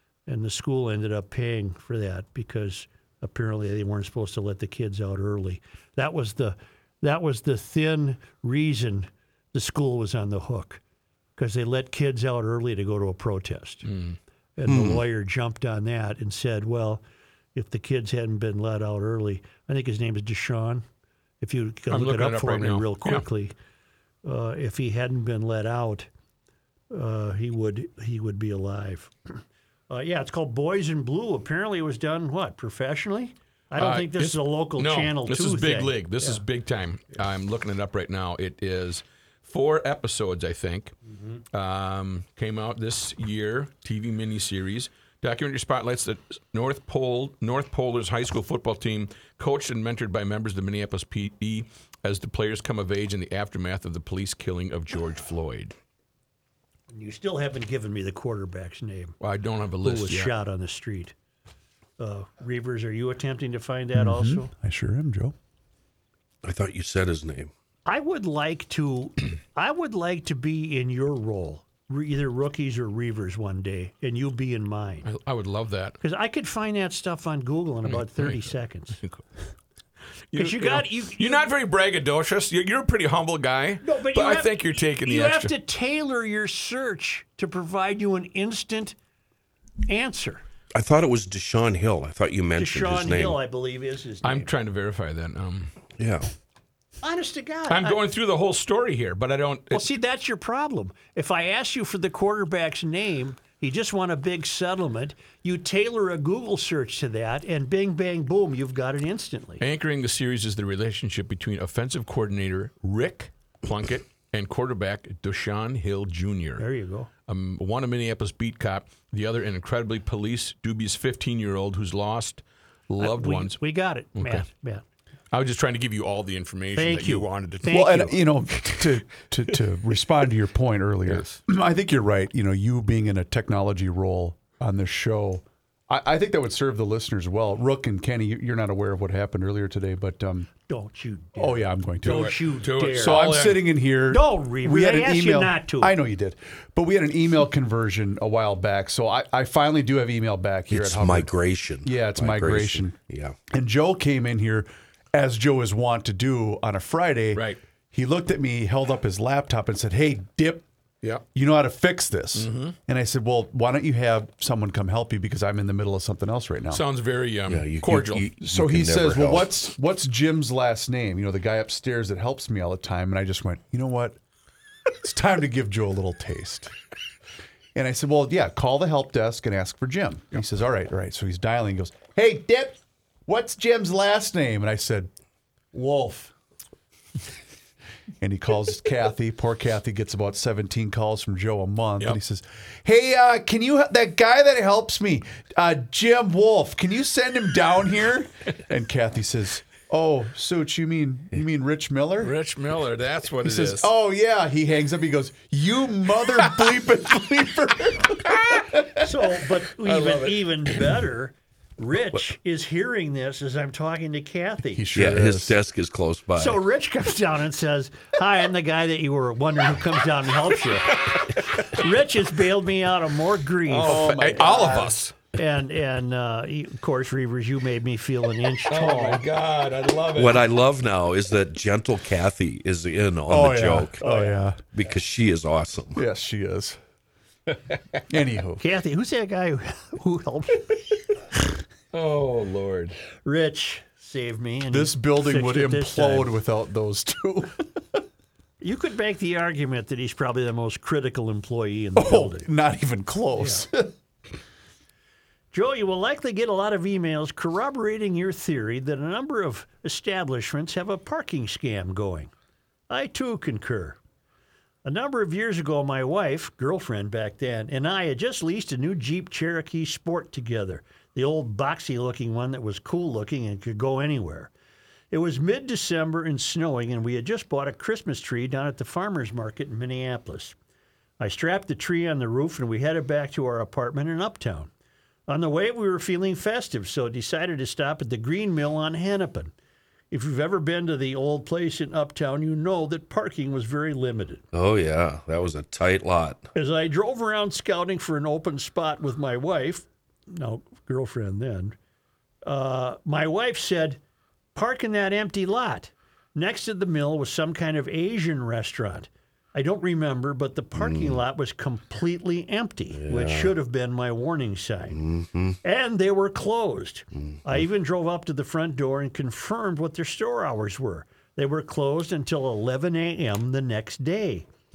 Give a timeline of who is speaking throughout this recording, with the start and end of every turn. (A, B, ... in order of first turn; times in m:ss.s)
0:00.3-0:10.8 A
0:11.4-0:13.8 A
0:13.8-0:14.2 B
0:14.6-0:17.0 A
0:14.7-0:15.0 C
0:17.5-0:20.8 A
0:21.4-0:23.5 A
0:21.9-0:23.2 B
0:24.2-0:26.1 A
0:26.9-0:36.4 A
0:33.8-0:40.9 B
0:41.5-0:55.7 B
0:56.9-0:59.2 A
0:59.2-1:00.3 B
0:59.8-1:01.1 A
1:02.0-1:04.5 A
1:03.9-1:05.3 D
1:06.4-1:07.5 C
1:07.8-1:15.1 A
1:15.0-1:16.0 B
1:16.0-1:19.0 A
1:17.8-1:18.5 B
1:20.3-1:25.5 B
1:20.4-1:21.4 A
1:23.8-1:29.0 A
1:29.8-1:30.4 A
1:30.7-1:33.4 C
1:32.6-1:34.5 A
1:34.2-1:35.7 B
1:36.0-1:36.3 C
1:37.0-1:38.0 A
1:37.7-1:39.8 B
1:39.7-1:49.6 A
1:49.6-1:56.6 B
1:56.6-1:57.1 A
1:57.3-2:03.6 B
2:03.0-2:04.8 A
2:04.2-2:04.4 B
2:05.3-2:08.0 B
2:06.7-2:08.2 A
2:07.7-2:20.5 D
2:11.1-2:11.4 B
2:20.7-2:23.3 A
2:21.4-2:32.9 D
2:22.0-2:23.6 B
2:24.1-2:25.9 A
2:30.7-2:33.4 C
2:33.5-2:40.6 D
2:41.3-2:46.8 D
2:42.3-2:42.7 B
2:46.7-2:48.2 B
2:47.5-2:49.5 C
2:48.4-2:54.2 D
2:55.0-2:56.7 D
2:57.7-3:05.1 D
3:05.7-3:06.3 D
3:08.2-3:22.4 D
3:22.2-3:23.9 B
3:23.4-3:29.0 D
3:29.0-3:34.9 A
3:29.8-3:30.4 B
3:34.7-3:35.6 D
3:34.9-3:36.6 C
3:36.4-3:44.1 A
3:43.7-3:45.1 B
3:43.8-3:45.0 D
3:45.3-3:49.2 A
3:48.7-3:50.5 B
3:50.1-3:54.1 C
3:53.3-3:54.6 D
3:54.0-3:54.4 A
3:54.7-3:56.0 C
3:55.9-3:56.8 D
3:58.1-3:58.6 D
3:58.6-4:00.8 A
4:01.9-4:03.0 B
4:03.2-4:06.3 A
4:04.7-4:08.0 D
4:08.6-4:12.5 A
4:12.0-4:13.9 D
4:13.4-4:13.6 A
4:15.5-4:22.3 A
4:22.9-4:24.0 A
4:24.8-4:34.5 A
4:35.1-4:40.6 A
4:41.2-4:44.7 A
4:45.3-4:49.5 A
4:50.1-4:54.4 A
4:54.5-4:56.5 C
4:56.5-5:01.8 A
5:02.4-5:04.0 A
5:04.5-5:15.0 A
5:10.8-5:11.2 C
5:12.9-5:13.5 C
5:14.9-5:15.6 C
5:15.6-5:24.5 A